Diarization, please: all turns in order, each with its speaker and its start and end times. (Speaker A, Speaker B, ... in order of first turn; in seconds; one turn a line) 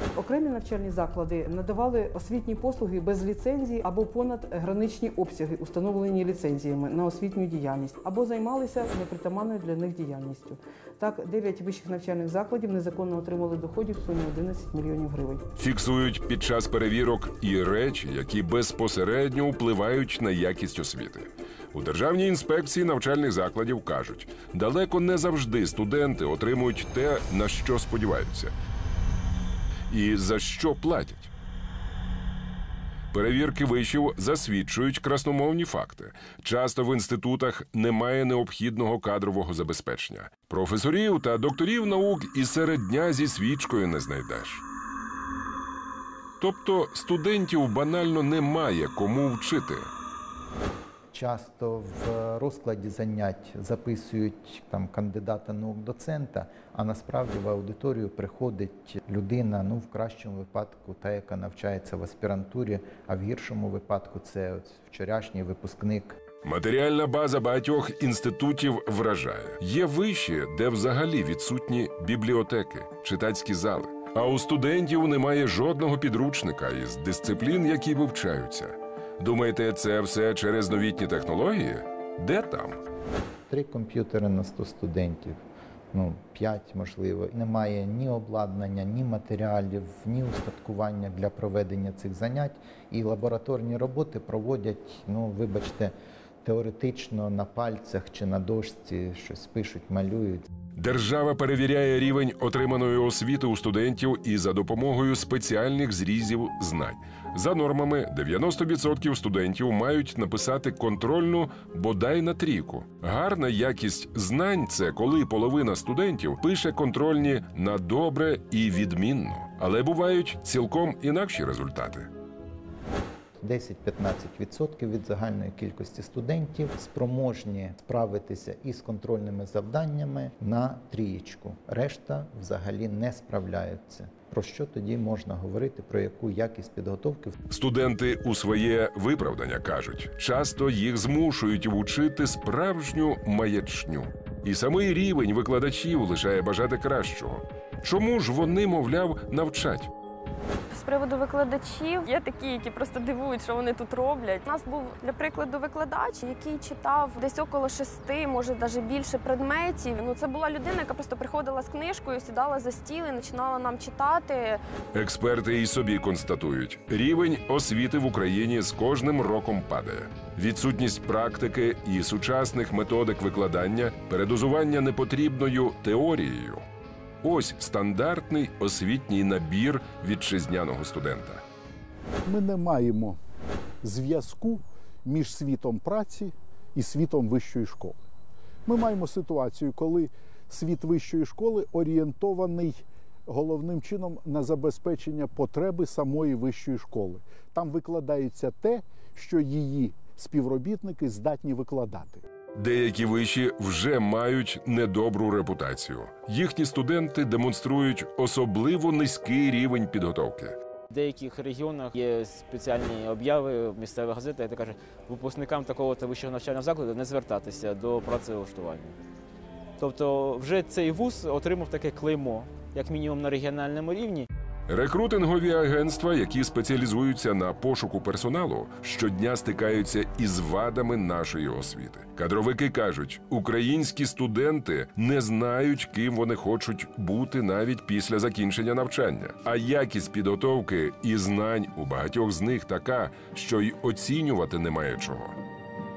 Speaker A: 0.1-15.4
Speaker B: 15.6-28.5
Speaker B: 29.9-31.3
Speaker B: 33.1-44.6
Speaker B: 46.4-49.9
Speaker C: 51.1-66.2
Speaker B: 66.4-82.8
Speaker C: 83.5-85.4
Speaker C: 85.9-100.5
Speaker B: 100.8-122.1
Speaker C: 123.4-137.3
Speaker B: 137.5-149.9
Speaker D: 150.7-164.6
Speaker B: 164.9-176.6
Speaker B: 177.2-181.4
Speaker E: 182.2-183.2
Speaker E: 183.8-188.0
Speaker E: 188.7-202.2
Speaker B: 202.5-210.6
Speaker F: 211.2-214.4
Speaker F: 223.6-224.3
Speaker B: 224.7-245.3